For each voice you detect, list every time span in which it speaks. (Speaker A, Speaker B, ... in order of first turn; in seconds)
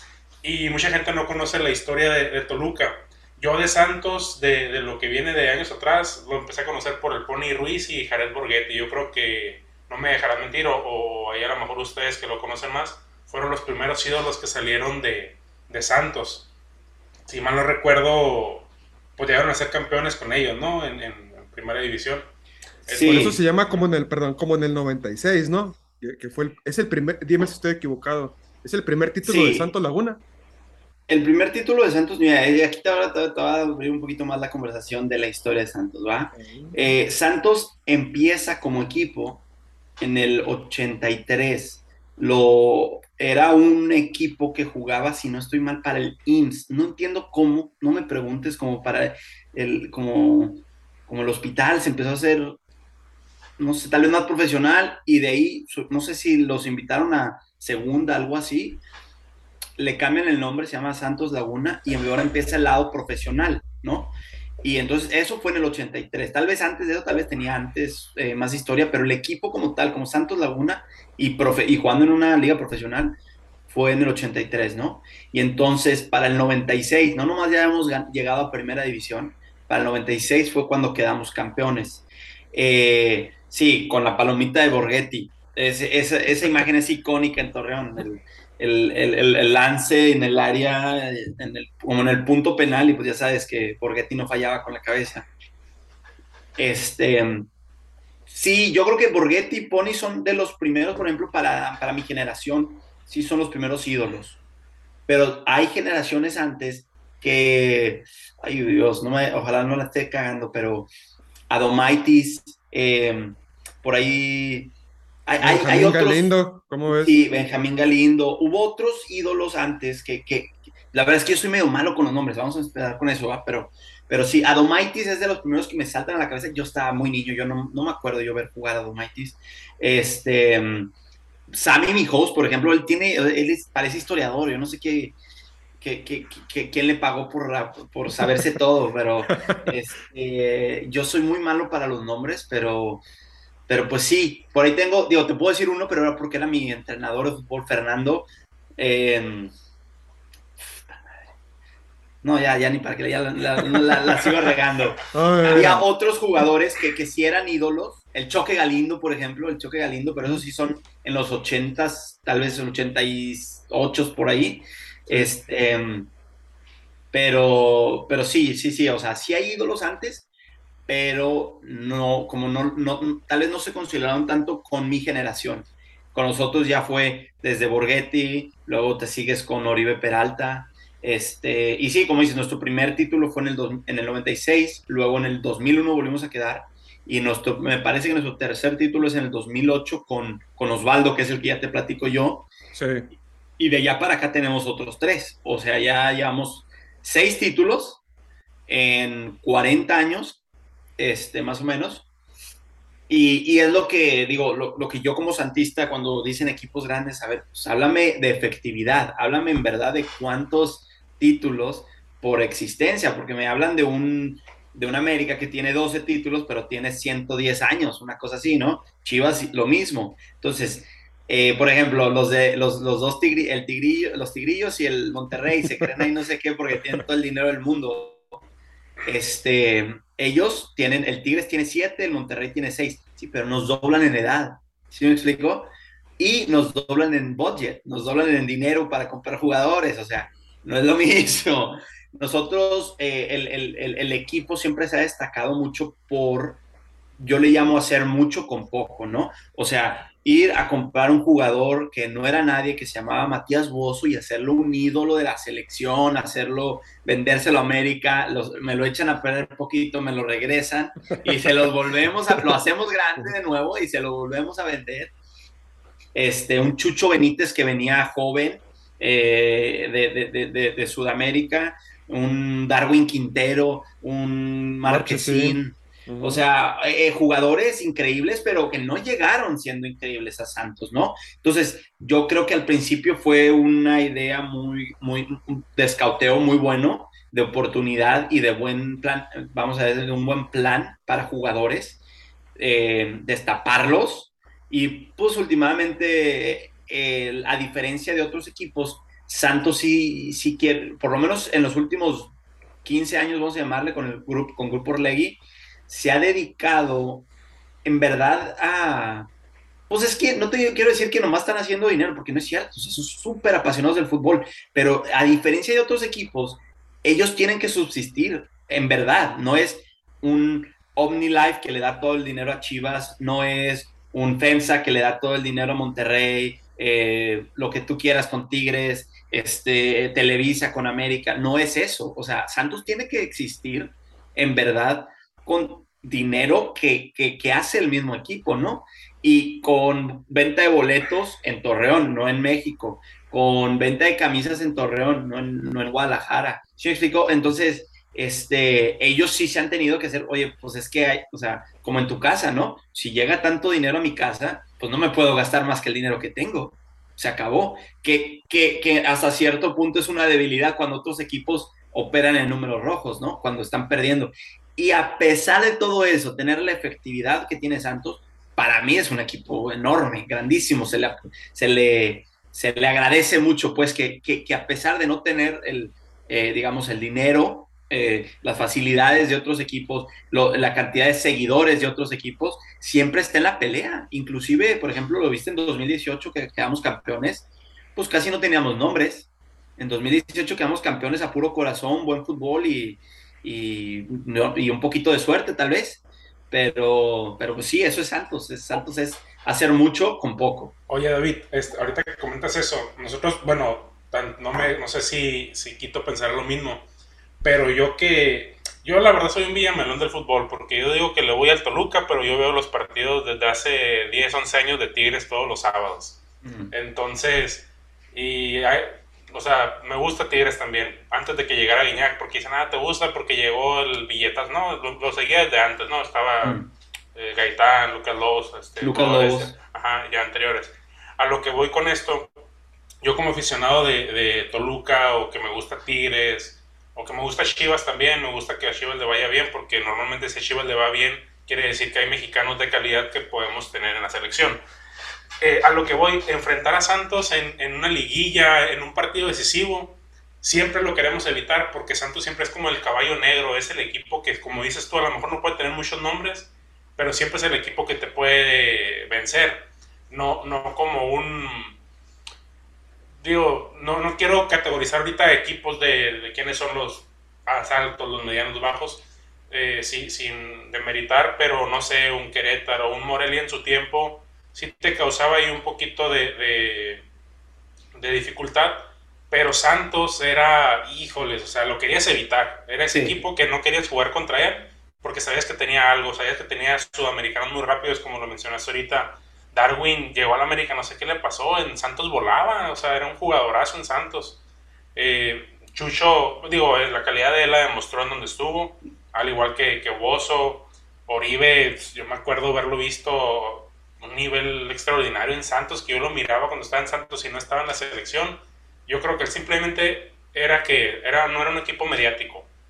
Speaker A: 0.4-16.5, 17.3-22.3, 22.9-23.3, 400.9-406.9, 407.4-426.6, 427.1-432.3, 433.0-444.6, 445.4-461.8, 463.2-477.1, 477.9-494.4, 494.9-512.5
Speaker B: 22.9-23.4, 29.2-29.7, 31.1-39.4, 40.0-52.6, 53.6-58.8, 59.8-73.2, 73.7-95.3, 96.6-97.5, 98.3-104.4, 105.1-110.9, 111.5-114.7, 115.3-116.3, 116.9-130.9, 131.5-135.2, 135.8-143.0, 143.7-149.5, 152.2-166.1, 167.1-170.3, 170.9-192.5, 193.6-198.0, 198.7-200.4, 201.0-202.1, 203.1-228.3, 229.1-246.6, 247.2-265.1, 266.1-292.0, 292.6-302.3, 302.8-307.3, 307.8-309.3, 309.9-400.7, 416.4-416.7, 426.4-426.7, 428.8-429.6, 482.9-483.2
Speaker C: 23.0-30.2, 36.3-36.9, 115.4-117.2, 155.1-155.8, 165.1-165.3, 192.7-193.1, 274.9-276.4